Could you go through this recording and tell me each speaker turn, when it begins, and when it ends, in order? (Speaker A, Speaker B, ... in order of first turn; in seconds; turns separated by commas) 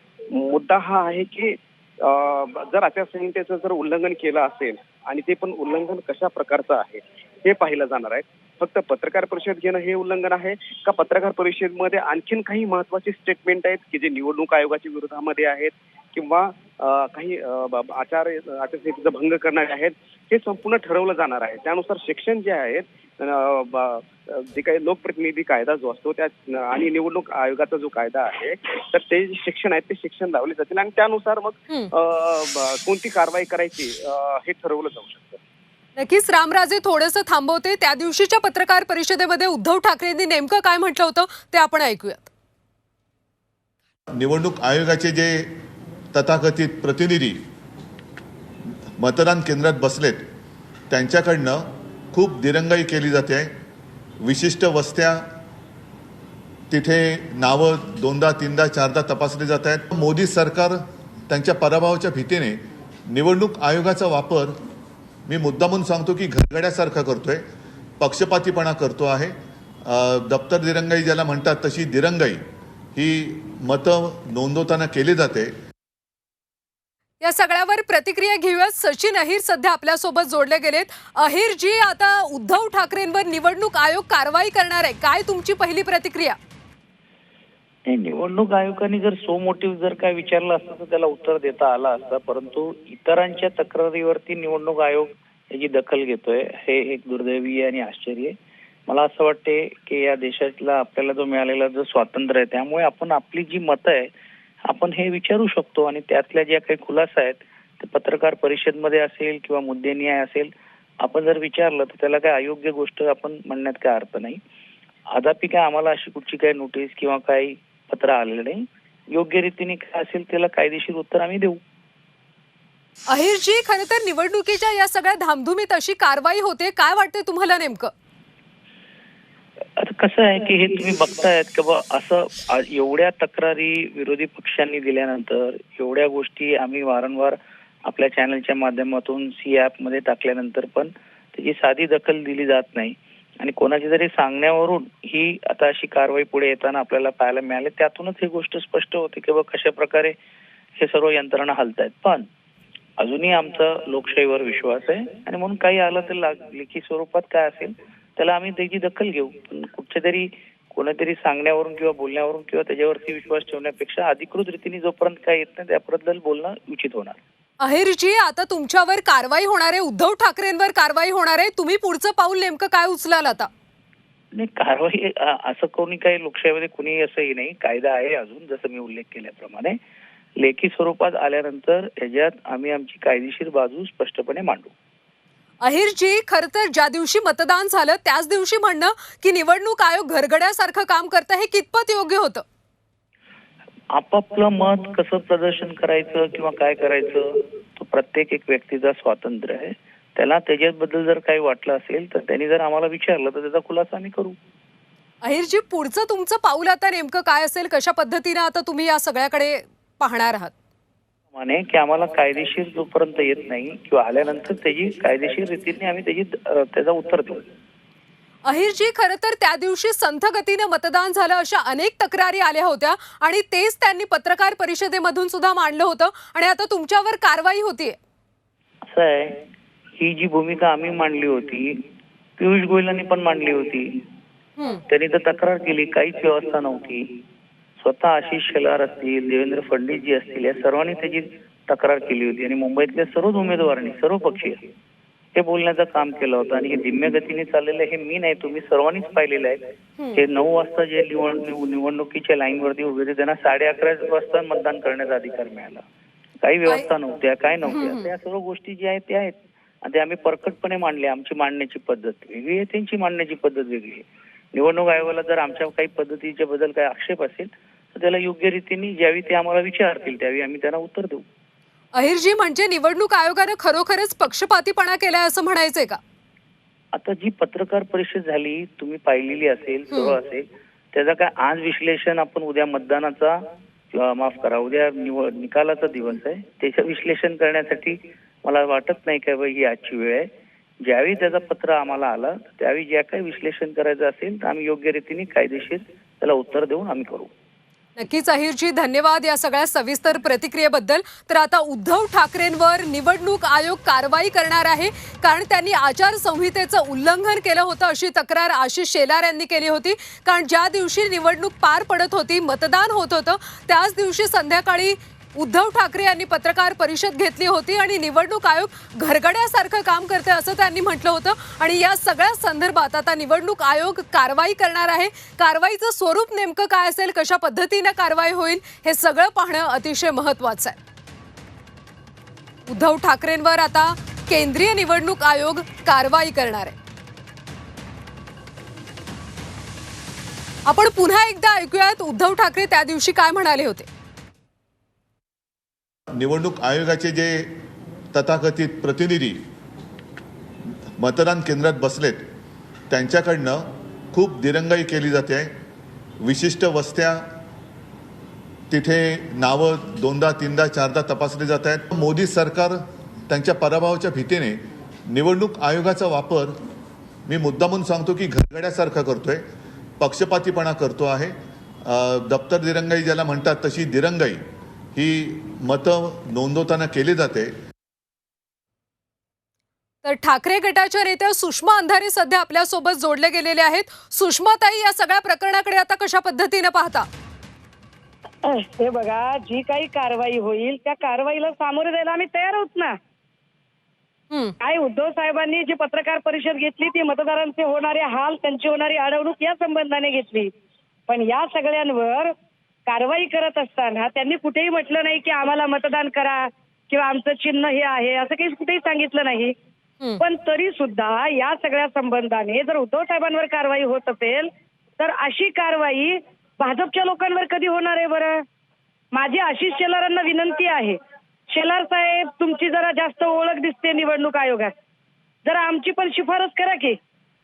Speaker A: 0.3-35.4, Speaker B: 36.0-42.3, Speaker C: 44.1-45.5, Speaker C: 46.1-47.4, Speaker C: 49.0-50.2, Speaker C: 50.9-53.5, Speaker C: 54.2-55.2, Speaker C: 56.7-60.8, Speaker C: 61.3-64.5, Speaker C: 65.3-67.4, Speaker C: 68.0-72.4, Speaker C: 72.9-75.5, Speaker B: 77.2-86.4, Speaker D: 87.9-98.3, Speaker D: 98.9-104.1, Speaker D: 104.7-110.5, Speaker D: 111.0-114.4, Speaker D: 115.1-121.6, Speaker B: 123.1-127.9, Speaker D: 129.8-150.1, Speaker D: 150.8-152.2, Speaker D: 153.0-167.2, Speaker B: 167.6-173.5, Speaker D: 174.3-179.8, Speaker D: 180.4-184.7, Speaker B: 185.6-192.4, Speaker D: 193.9-204.3, Speaker B: 205.2-210.5, Speaker D: 211.3-217.4, Speaker B: 218.4-228.0, Speaker D: 228.9-229.3, Speaker D: 230.0-231.8, Speaker D: 232.4-234.0, Speaker B: 234.6-234.8, Speaker D: 234.9-237.1, Speaker D: 237.8-244.6, Speaker D: 245.3-255.8, Speaker D: 256.4-271.2, Speaker B: 257.7-258.1, Speaker B: 271.9-276.0, Speaker D: 276.9-283.3, Speaker B: 279.9-280.1, Speaker D: 283.9-290.2, Speaker D: 290.8-297.3, Speaker B: 298.0-330.8, Speaker B: 332.7-336.8, Speaker B: 340.6-343.9, Speaker C: 346.1-347.5, Speaker C: 348.1-349.4, Speaker C: 351.0-352.2, Speaker C: 352.9-355.5, Speaker C: 356.2-357.2, Speaker C: 358.7-362.8, Speaker C: 363.3-366.5, Speaker C: 367.3-369.4, Speaker C: 370.0-374.4, Speaker C: 374.9-377.5, Speaker B: 380.0-387.1, Speaker E: 388.8-392.9, Speaker E: 394.6-400.4, Speaker E: 401.1-402.3, Speaker E: 402.9-409.5, Speaker E: 410.2-414.4, Speaker E: 415.0-418.3, Speaker E: 419.1-420.9, Speaker E: 421.5-424.7, Speaker E: 425.4-426.9